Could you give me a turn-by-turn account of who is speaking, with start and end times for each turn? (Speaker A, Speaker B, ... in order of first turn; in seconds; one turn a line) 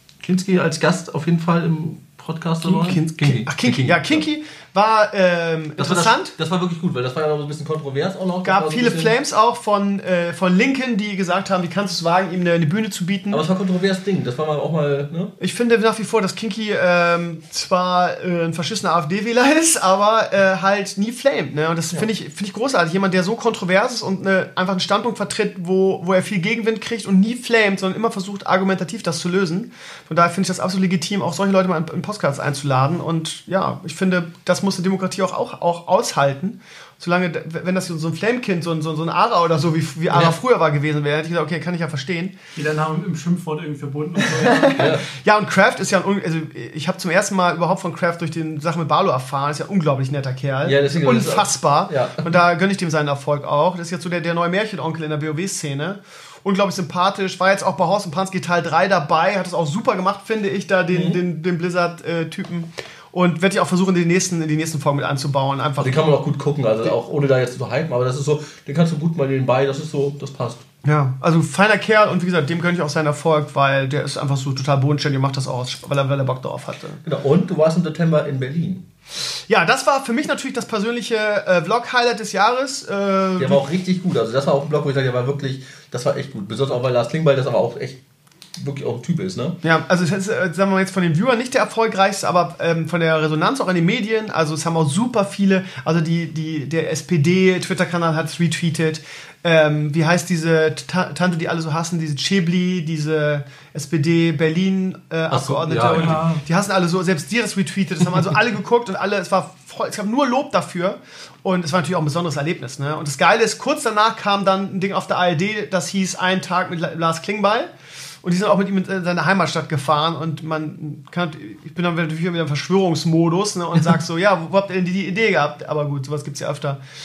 Speaker A: 0.2-4.2
Speaker B: 2.6-6.3
Speaker A: 5.8-9.1
Speaker B: 8.4-13.4
Speaker A: 13.3-15.3
Speaker B: 15.4-42.4
Speaker A: 40.1-40.4
Speaker C: 42.5-44.9
Speaker B: 44.3-66.0
Speaker A: 44.8-45.1
Speaker A: 50.6-52.2
Speaker A: 60.9-61.2
Speaker A: 65.8-70.6
Speaker B: 70.8-77.0
Speaker A: 77.0-78.8
Speaker B: 79.5-83.6
Speaker A: 83.4-88.0
Speaker A: 88.5-89.6
Speaker B: 89.6-117.7
Speaker A: 105.3-106.2
Speaker C: 105.9-106.4
Speaker B: 118.2-126.8